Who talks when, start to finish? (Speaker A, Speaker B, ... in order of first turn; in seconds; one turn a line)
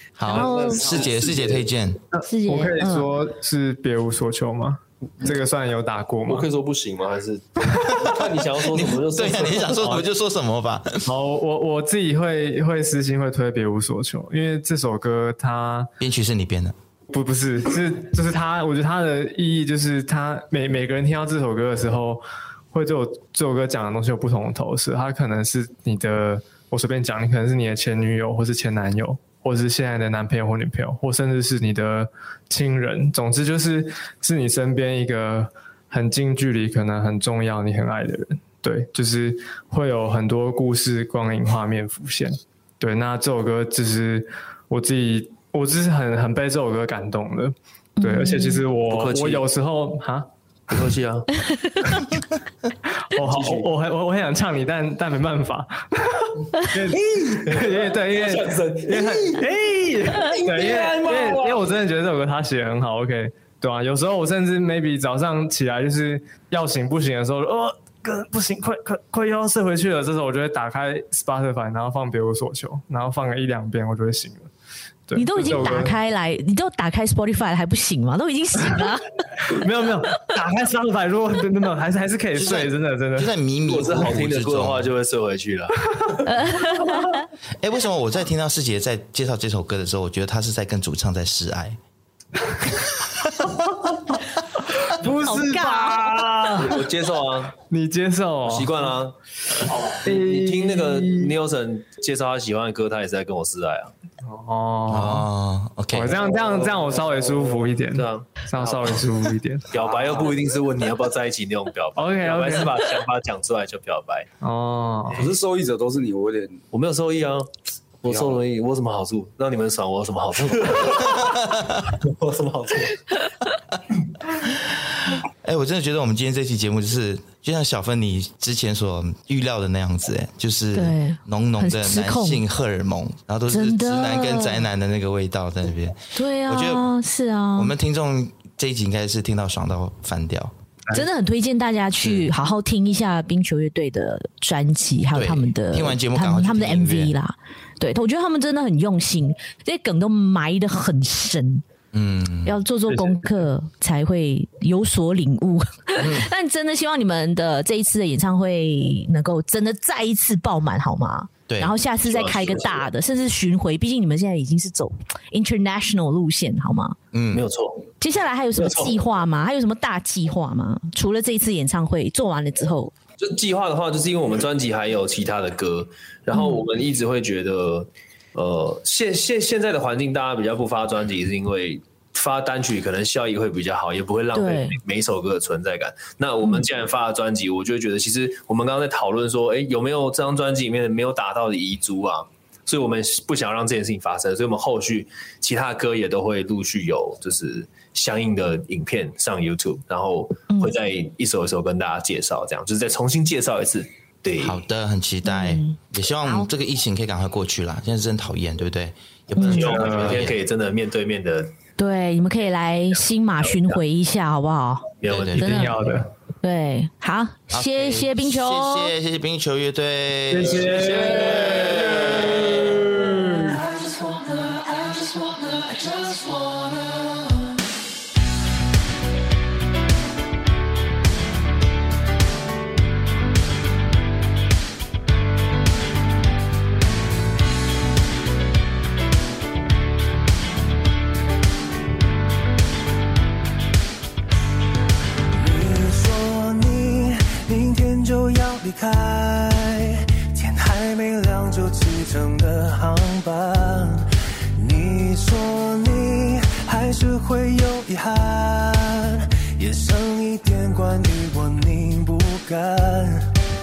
Speaker A: 0.2-2.0
Speaker B: 0.3-0.8
Speaker C: 0.3-1.7
Speaker D: 2.1-6.5
Speaker B: 2.2-3.1
Speaker C: 6.3-10.1
Speaker A: 7.8-11.1
Speaker D: 11.0-15.9
Speaker A: 16.0-16.7
Speaker D: 17.1-50.3
Speaker B: 48.0-48.6
Speaker C: 48.9-49.4
Speaker C: 50.7-51.3
Speaker D: 53.0-74.5
Speaker E: 53.2-53.7
Speaker E: 58.9-59.2
Speaker E: 60.2-61.7
Speaker D: 75.1-76.0
Speaker B: 75.1-79.1
Speaker D: 79.4-83.3
Speaker A: 82.3-84.9
Speaker C: 83.6-85.8
Speaker B: 86.2-87.2
Speaker A: 87.6-91.8
Speaker D: 94.8-96.8
Speaker B: 95.1-96.5
Speaker C: 96.6-97.5
Speaker D: 97.6-98.8
Speaker C: 98.5-99.2
Speaker D: 99.7-101.3
Speaker C: 99.8-103.9
Speaker D: 104.2-105.2
Speaker A: 104.9-106.2
Speaker D: 105.9-109.8
Speaker C: 107.9-109.0
Speaker C: 109.7-114.3
Speaker D: 112.0-112.9
Speaker D: 114.4-115.3
Speaker E: 115.1-116.6
Speaker C: 116.7-117.5
Speaker C: 118.0-123.1
Speaker E: 118.1-118.4
Speaker A: 121.2-121.7
Speaker A: 124.5-136.9
Speaker B: 130.7-132.4
Speaker B: 133.5-134.6
Speaker B: 136.1-137.7
Speaker A: 137.5-140.5
Speaker B: 140.9-151.6
Speaker A: 142.0-142.3
Speaker A: 145.1-147.1
Speaker A: 151.9-152.6
Speaker B: 152.4-166.9
Speaker A: 156.0-156.3
Speaker A: 161.5-161.7
Speaker C: 162.0-162.8
Speaker A: 167.1-167.4
Speaker C: 167.3-167.9
Speaker B: 168.0-172.9
Speaker C: 168.6-168.9
Speaker C: 173.2-204.6
Speaker B: 176.3-176.6
Speaker B: 184.3-184.8
Speaker A: 204.4-210.4
Speaker B: 205.2-206.5
Speaker C: 209.4-211.5
Speaker B: 209.4-209.7
Speaker D: 209.4-210.2
Speaker B: 211.8-214.9
Speaker C: 213.4-213.8
Speaker C: 215.0-215.8
Speaker A: 215.1-215.8
Speaker D: 215.4-216.1
Speaker B: 216.4-218.9
Speaker A: 217.5-221.6
Speaker D: 220.3-223.6
Speaker F: 223.7-227.2
Speaker F: 245.3-263.3